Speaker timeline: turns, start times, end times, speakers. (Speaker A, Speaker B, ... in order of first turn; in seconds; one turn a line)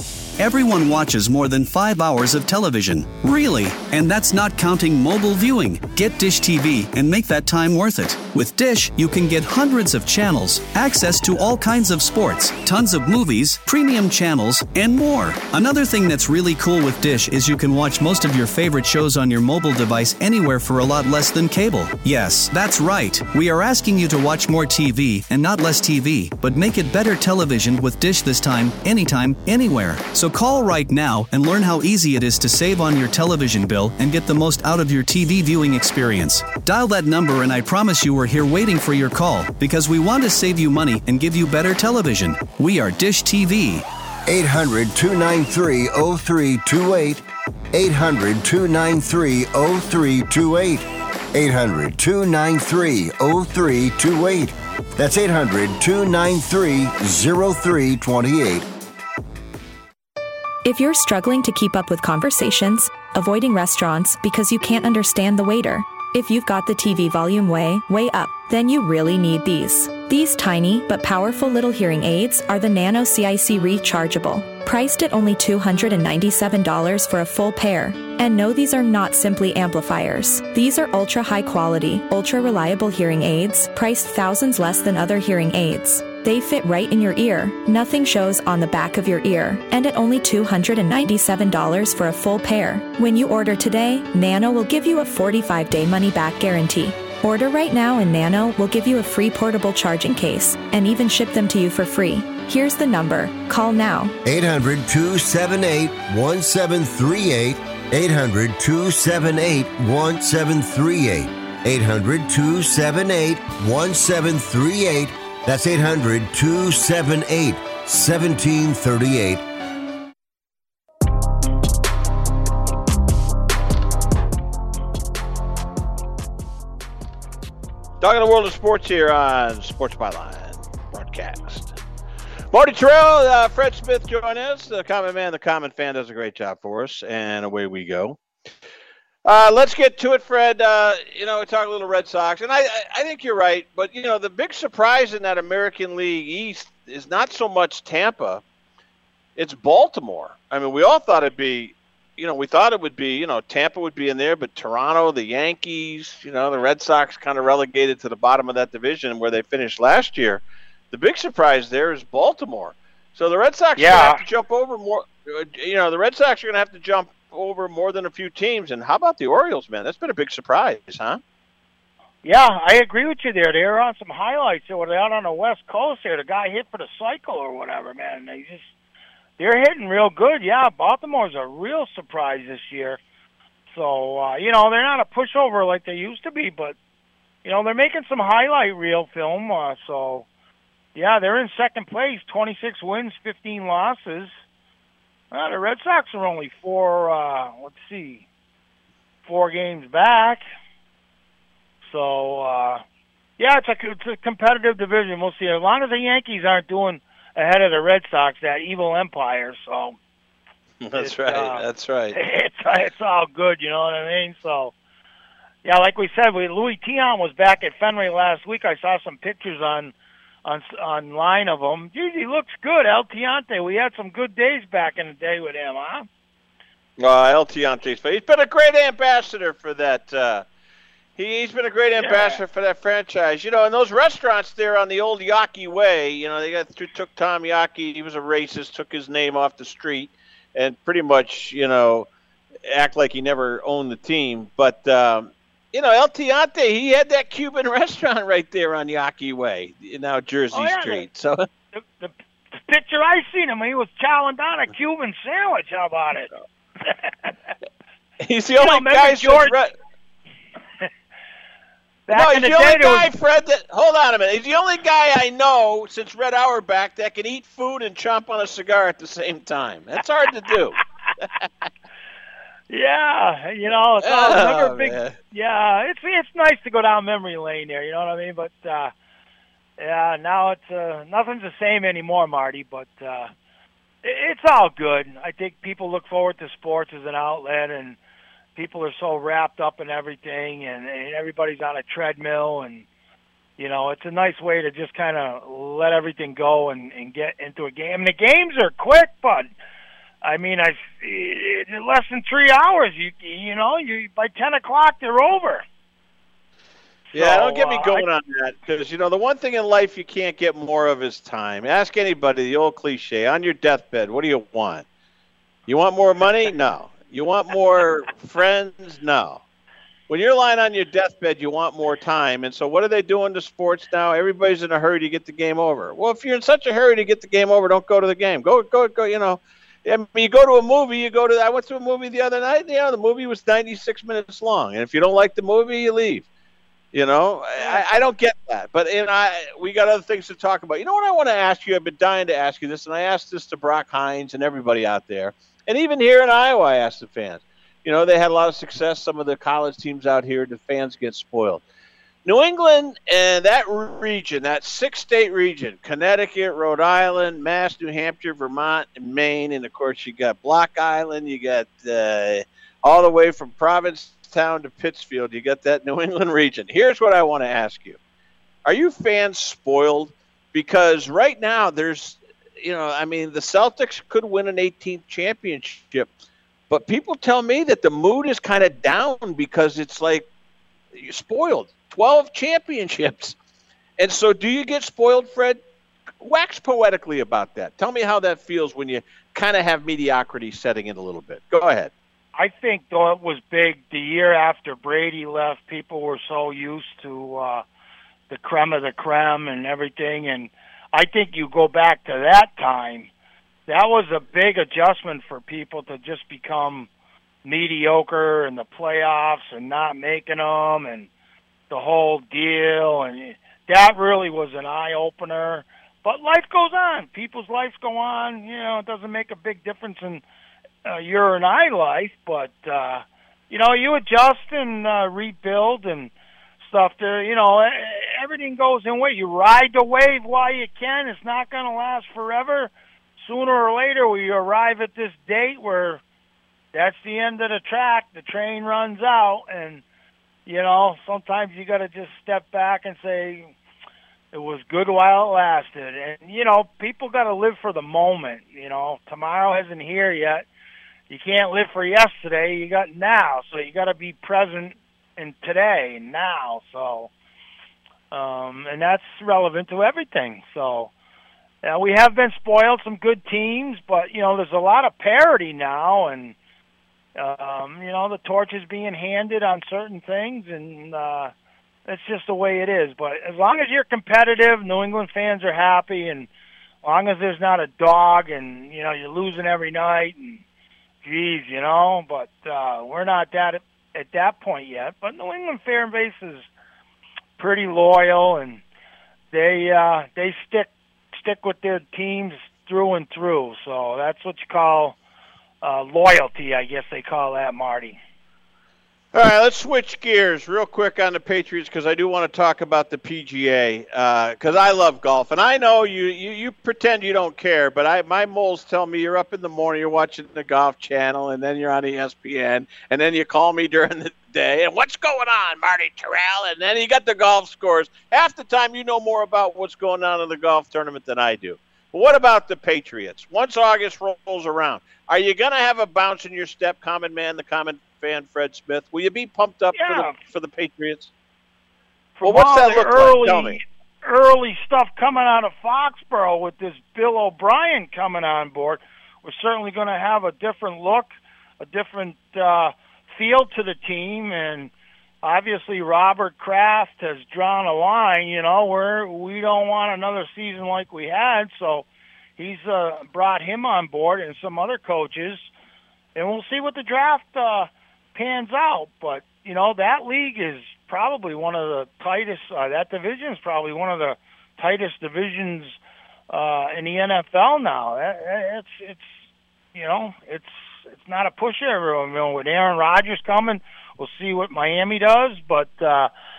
Speaker A: 0.4-43.9
Speaker B: 44.2-58.7
Speaker C: 60.6-104.1
Speaker B: 104.2-119.4
Speaker D: 128.0-131.7
Speaker D: 132.5-138.2
Speaker D: 139.2-148.4
Speaker D: 149.3-171.2
Speaker E: 163.8-164.2
Speaker E: 172.2-178.7
Speaker E: 179.4-183.0
Speaker E: 183.7-186.8
Speaker E: 187.4-190.3
Speaker E: 190.9-194.3
Speaker E: 195.3-198.2
Speaker E: 199.2-200.4
Speaker E: 201.9-202.8
Speaker E: 203.4-210.0
Speaker D: 210.8-212.2
Speaker E: 210.9-214.7
Speaker E: 215.6-219.9
Speaker E: 220.4-226.1
Speaker D: 227.0-230.4
Speaker D: 231.2-242.1
Speaker E: 232.0-232.4
Speaker D: 242.7-251.4
Speaker E: 250.5-251.1
Speaker E: 251.7-256.3
Speaker E: 256.9-257.3
Speaker D: 258.2-259.7
Speaker E: 258.6-259.5
Speaker E: 262.1-263.1
Speaker D: 262.1-270.8
Speaker E: 272.7-278.9
Speaker D: 274.0-275.1
Speaker E: 279.8-283.3
Speaker E: 284.0-288.0
Speaker E: 288.6-292.9
Speaker E: 293.6-299.5
Speaker E: 300.2-305.6
Speaker E: 307.1-308.0
Speaker D: 307.1-314.8
Speaker D: 315.7-319.4
Speaker D: 320.1-336.3
Speaker D: 336.9-351.6
Speaker E: 337.6-337.8
Speaker D: 352.2-368.0
Speaker D: 368.6-376.1
Speaker D: 376.7-380.2
Speaker D: 380.9-383.4
Speaker D: 384.0-385.6
Speaker D: 386.2-391.9
Speaker E: 392.4-397.6
Speaker E: 398.3-403.1
Speaker E: 403.7-406.9
Speaker E: 407.4-411.1
Speaker E: 411.7-420.2
Speaker E: 420.8-426.1
Speaker E: 426.6-436.0
Speaker E: 436.7-439.8
Speaker E: 440.4-443.5
Speaker E: 444.3-450.4
Speaker E: 451.1-457.1
Speaker E: 458.1-460.9
Speaker E: 461.6-466.4
Speaker E: 467.1-471.3
Speaker E: 471.9-476.3
Speaker E: 476.8-480.4
Speaker E: 481.0-486.4
Speaker E: 487.4-488.6
Speaker E: 489.3-494.9
Speaker E: 495.6-498.0
Speaker D: 499.1-531.1
Speaker E: 529.7-530.1
Speaker E: 532.2-544.7
Speaker D: 532.2-533.6
Speaker E: 545.2-555.5
Speaker E: 556.1-565.8
Speaker E: 566.3-569.2
Speaker E: 569.7-576.1